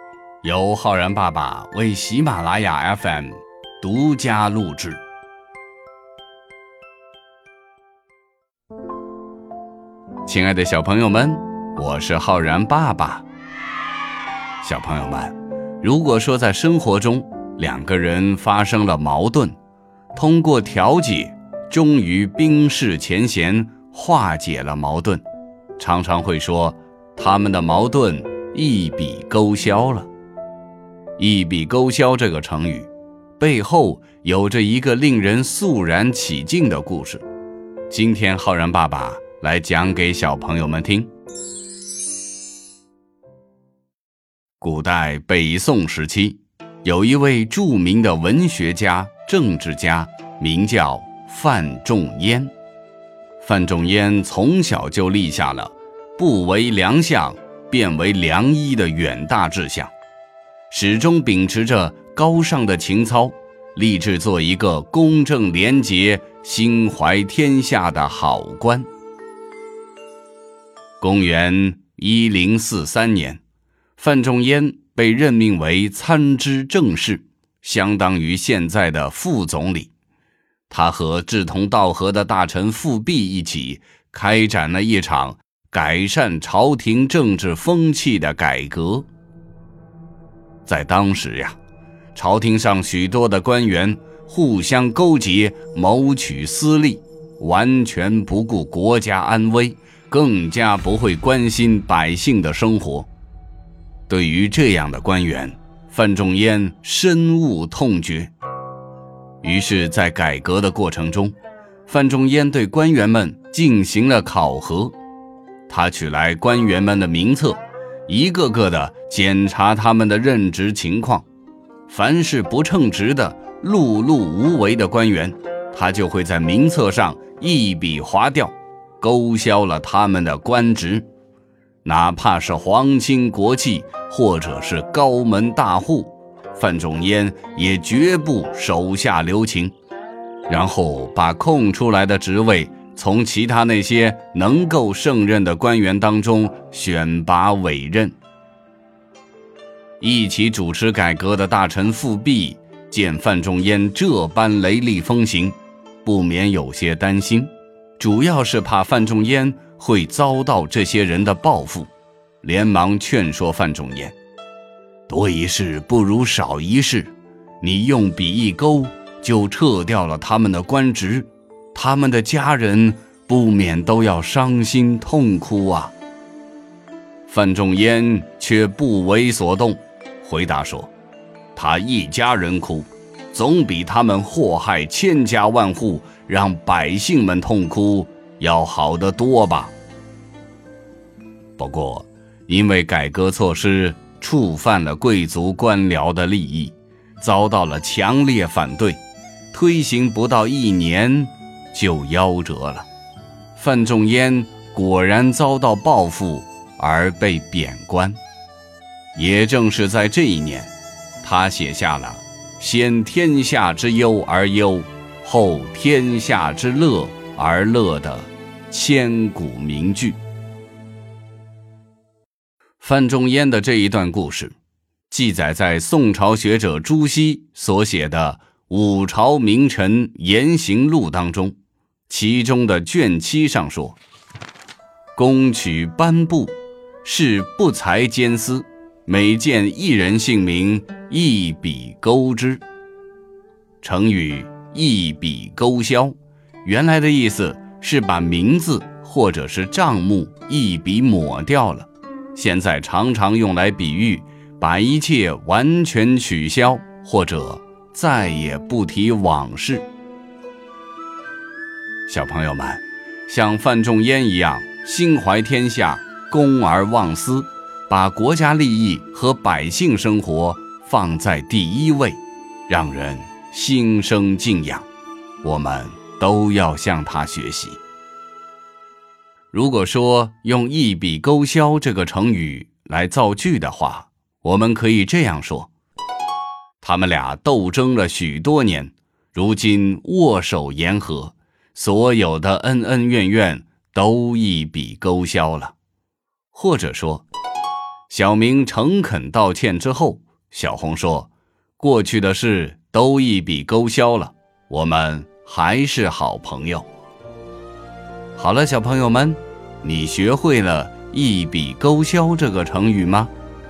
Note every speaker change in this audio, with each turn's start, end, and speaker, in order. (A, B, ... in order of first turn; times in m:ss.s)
0:00.4-0:05.0 A
0:10.3-0:13.2 A
0:14.6-0:19.6 A
0:20.2-0:25.2 A
0:25.8-0:30.1 A
0:31.2-0:37.2 A
0:37.9-0:41.1 A
0:44.6-0:52.5 A
0:53.4-0:59.9 A
1:00.7-1:08.9 A
1:11.0-1:13.4 A
1:14.0-1:19.9 A
1:20.7-1:29.1 A
1:30.7-1:31.6 A
1:32.2-1:43.1 A
1:44.1-1:48.3 A
1:49.4-1:51.4 A
1:51.9-1:55.0 A
1:55.7-2:01.3 A
2:01.9-2:11.0 A
2:11.8-2:19.7 A
2:20.5-2:28.2 A
2:30.0-2:41.9 A
2:42.4-2:44.2 A
2:45.1-2:55.9 A
2:57.3-3:00.9 A
3:01.6-3:09.8 A
3:11.6-3:19.0 A
3:19.5-3:22.9 A
3:23.6-3:28.2 A
3:29.2-3:40.2 A
3:42.8-3:44.6 A
3:45.1-3:51.6 A
3:52.1-3:54.0 A
3:55.2-4:02.6 A
4:03.8-4:19.9 A
4:22.1-4:34.9 A
4:35.4-4:37.8 A
4:39.5-4:45.7 A
4:46.8-4:55.7 A
4:56.5-4:57.2 A
4:58.1-5:06.9 A
5:08.4-5:13.3 A